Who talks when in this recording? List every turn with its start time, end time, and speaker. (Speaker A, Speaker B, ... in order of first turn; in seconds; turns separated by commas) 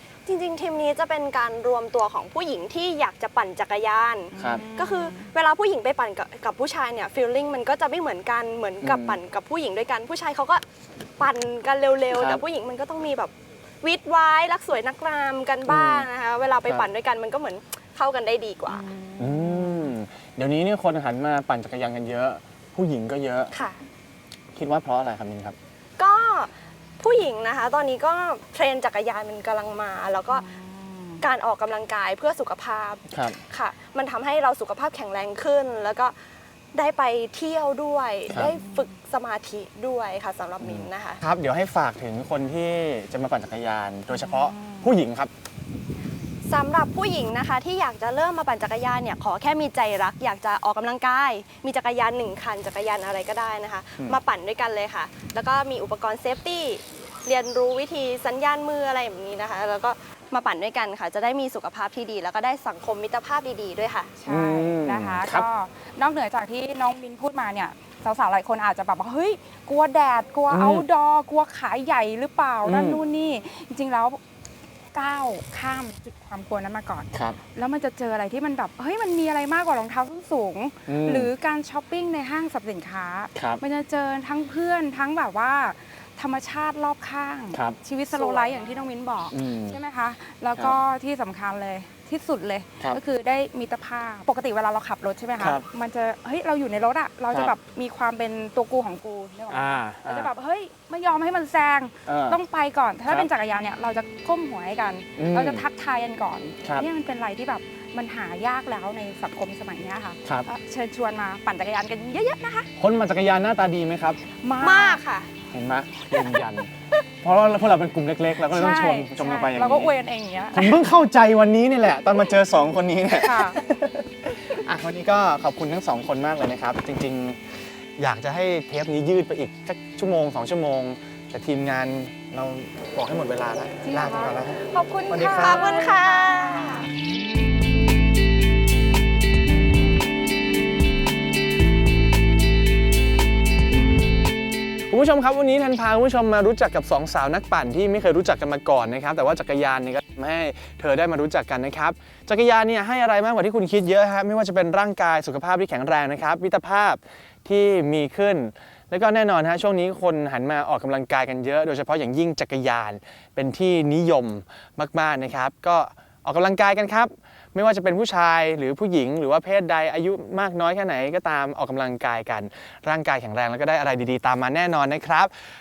Speaker A: 0.3-10.6, Speaker B: 4.3-5.3, Speaker C: 4.4-4.7, Speaker C: 8.8-9.2, Speaker A: 11.2-18.9, Speaker C: 12.1-12.4, Speaker C: 15.7-16.1, Speaker B: 18.7-19.9, Speaker C: 19.2-23.5, Speaker C: 24.5-25.6, Speaker A: 26.0-30.5, Speaker B: 30.3-31.2, Speaker A: 31.2-36.1, Speaker C: 33.1-33.4, Speaker A: 36.7-41.2, Speaker B: 38.4-38.9, Speaker C: 40.6-45.3, Speaker B: 44.1-44.9, Speaker A: 46.5-64.1, Speaker B: 64.2-74.2, Speaker C: 64.3-65.5, Speaker C: 70.5-70.8, Speaker C: 72.7-73.0, Speaker B: 74.9-112.7, Speaker C: 80.9-81.3, Speaker C: 83.3-83.6, Speaker A: 88.2-88.8, Speaker C: 89.3-89.8, Speaker C: 95.4-95.7, Speaker C: 99.5-100.3, Speaker C: 102.1-102.4, Speaker C: 105.2-105.6, Speaker C: 112.8-114.2, Speaker B: 114.4-115.0, Speaker A: 114.6-115.3, Speaker C: 115.5-116.7, Speaker C: 117.2-119.9, Speaker B: 118.5-120.8, Speaker C: 120.5-127.4, Speaker B: 123.2-123.6, Speaker C: 128.0-135.9, Speaker B: 133.8-134.4, Speaker A: 134.7-136.9, Speaker B: 135.1-136.0, Speaker C: 144.9-175.3